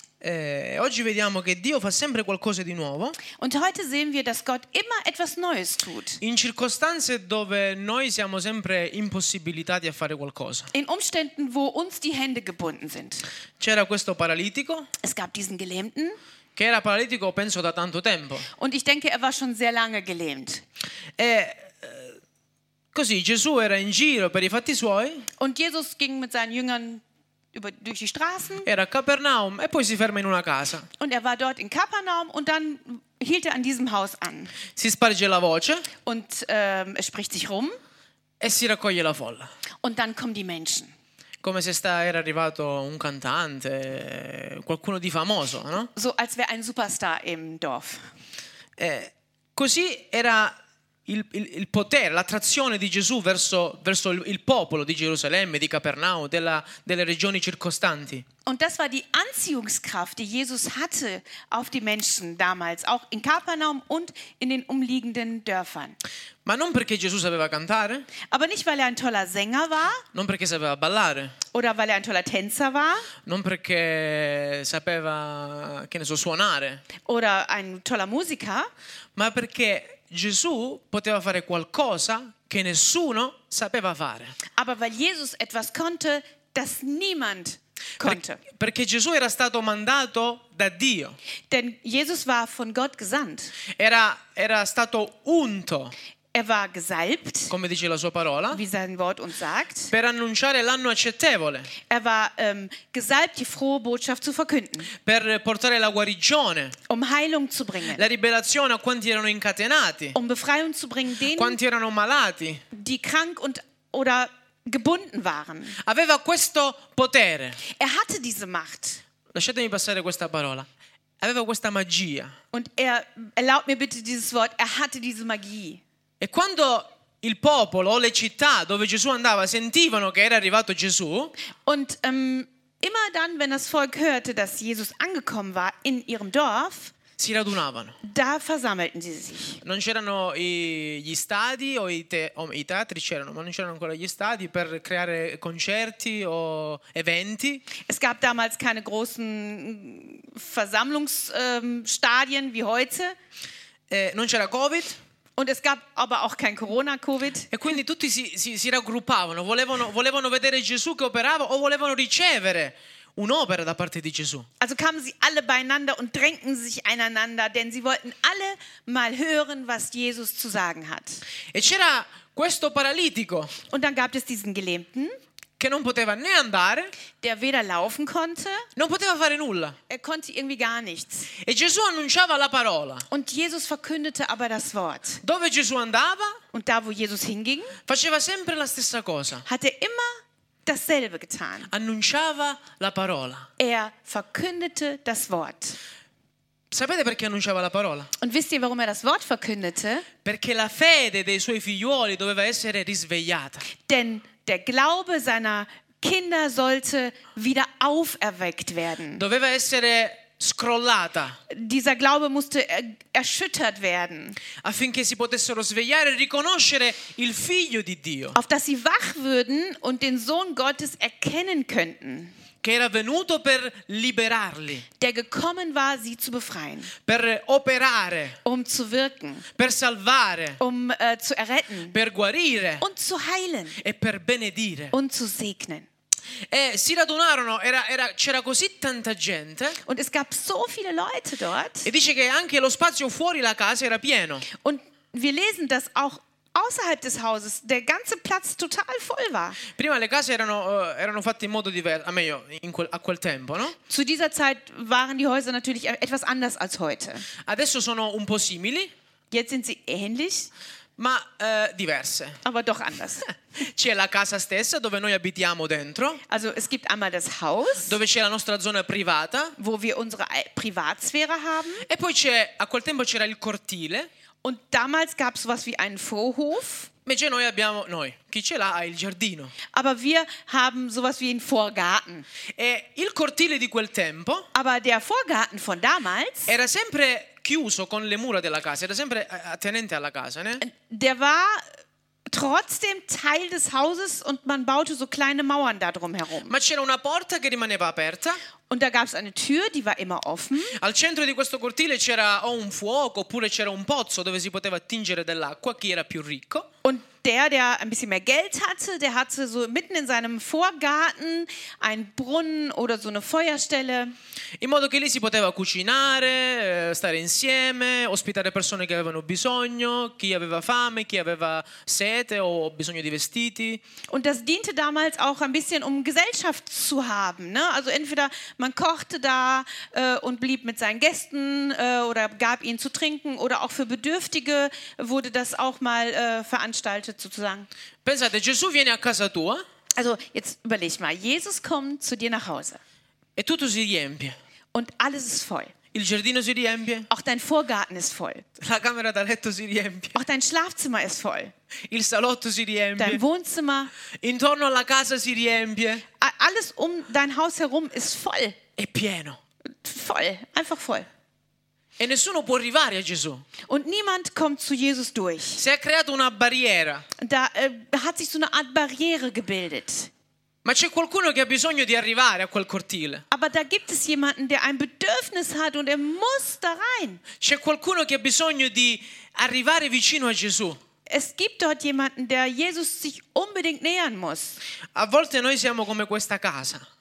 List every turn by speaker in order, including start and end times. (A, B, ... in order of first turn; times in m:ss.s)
0:00.2-0:03.2 A
0:03.4-0:06.2 B
0:06.2-0:10.7 A
0:10.7-0:13.2 B
0:13.6-0:14.9 A
0:15.0-0:16.2 B
0:16.6-0:18.5 A
0:18.6-0:20.6 B
0:21.2-0:22.2 A
0:22.9-0:25.3 A
0:25.4-0:27.0 B
0:27.5-0:28.7 B
0:28.6-0:30.9 A
0:31.0-0:34.6 B
0:34.7-0:35.9 A
0:36.0-0:37.8 B
0:38.4-0:39.5 A
0:39.8-0:40.9 B
0:41.4-0:45.9 A
0:45.9-0:48.0 B
0:48.8-0:58.2 A
0:58.4-1:06.0 B
1:06.4-1:08.1 A
1:08.3-1:10.0 B
1:10.1-1:11.3 A
1:11.5-1:13.1 B
1:13.2-1:16.8 A
1:17.0-1:18.7 B
1:19.2-1:24.3 A
1:24.6-1:28.4 B
1:28.0-1:31.2 A
1:31.5-1:33.5 B
1:33.8-1:35.9 A
1:36.3-1:37.5 B
1:37.5-1:38.6 A
1:38.5-1:39.9 B
1:39.9-1:41.7 A
1:41.9-1:44.9 B
1:45.0-1:46.7 A
1:46.9-1:48.0 B
1:47.9-1:50.2 A
1:50.1-1:51.6 B
1:51.3-1:52.6 A
1:52.7-1:55.8 B
1:55.8-1:57.6 A
1:57.6-1:59.0 B
1:59.3-2:00.7 A
2:01.2-2:02.3 A
2:02.5-2:05.8 B
2:06.2-2:11.3 A
2:11.6-2:16.9 B
2:17.2-2:18.0 A
2:18.0-2:19.6 B
2:19.6-2:27.6 A
2:27.8-2:33.1 B
2:33.9-2:35.0 A
2:35.4-2:37.5 B
2:37.5-2:44.5 A
2:44.6-2:51.2 B
2:51.5-2:53.5 A
2:53.7-2:55.2 B
2:55.6-2:56.9 A
2:57.2-2:58.6 B
2:58.8-2:59.8 A
2:59.9-3:01.3 B
3:01.4-3:03.1 A
3:03.1-3:05.2 B
3:05.2-3:06.4 A
3:06.5-3:07.8 B
3:07.9-3:09.4 A
3:09.5-3:11.7 B
3:11.7-3:13.5 A
3:13.6-3:15.8 B
3:16.7-3:18.1 A
3:18.2-3:20.0 B
3:20.2-3:23.6 A
3:23.8-3:29.2 B
3:29.2-3:31.4 A
3:31.5-3:34.4 B
3:34.6-3:38.4 A
3:38.3-3:42.3 B
3:42.6-3:44.8 A
3:45.0-3:46.9 B
3:47.0-3:48.4 A
3:48.4-3:49.4 B
3:49.6-3:50.6 A
3:50.6-3:52.0 B
3:51.9-3:52.8 A
3:52.8-3:53.8 B
3:53.8-3:54.9 A
3:54.9-3:55.9 B
3:56.5-3:59.8 A
3:59.8-4:01.9 B
4:01.8-4:04.5 A
4:04.5-4:09.6 B
4:09.7-4:13.8 A
4:13.9-4:17.2 B
4:17.4-4:18.9 A
4:19.3-4:20.5 B
4:21.0-4:22.4 A
4:22.4-4:23.3 B
4:23.5-4:26.2 A
4:26.3-4:28.0 B
4:27.8-4:29.5 A
4:29.6-4:31.9 B
4:31.8-4:34.1 A
4:34.4-4:36.9 B
4:37.0-4:39.5 A
4:39.7-4:42.2 B
4:42.6-4:44.5 A
4:44.5-4:46.5 B
4:46.5-4:50.6 A
4:50.6-4:51.6 B
4:52.3-4:56.5 B
4:56.4-4:58.4 A
4:58.7-5:00.8 B
5:00.8-5:06.7 A
5:06.8-5:14.1 B
5:14.6-5:23.8 A
5:24.1-5:37.7 B
5:38.0-5:39.6 A
5:40.0-5:42.8 B
5:43.4-5:44.4 A
5:44.7-5:45.7 B
5:45.9-5:47.1 A
5:47.1-5:48.4 B
5:48.6-5:50.2 A
5:50.1-5:51.5 B
5:51.9-5:53.2 A
5:53.0-5:53.9 B
5:54.2-5:56.0 A
5:56.2-5:58.6 B
5:58.8-5:59.4 A
5:59.8-6:01.1 B
6:02.0-6:03.4 A
6:03.7-6:05.6 B
6:05.6-6:07.0 A
6:07.2-6:10.1 B
6:10.6-6:13.2 A
6:13.3-6:17.2 B
6:17.4-6:20.8 A
6:21.1-6:24.6 B
6:24.9-6:26.8 A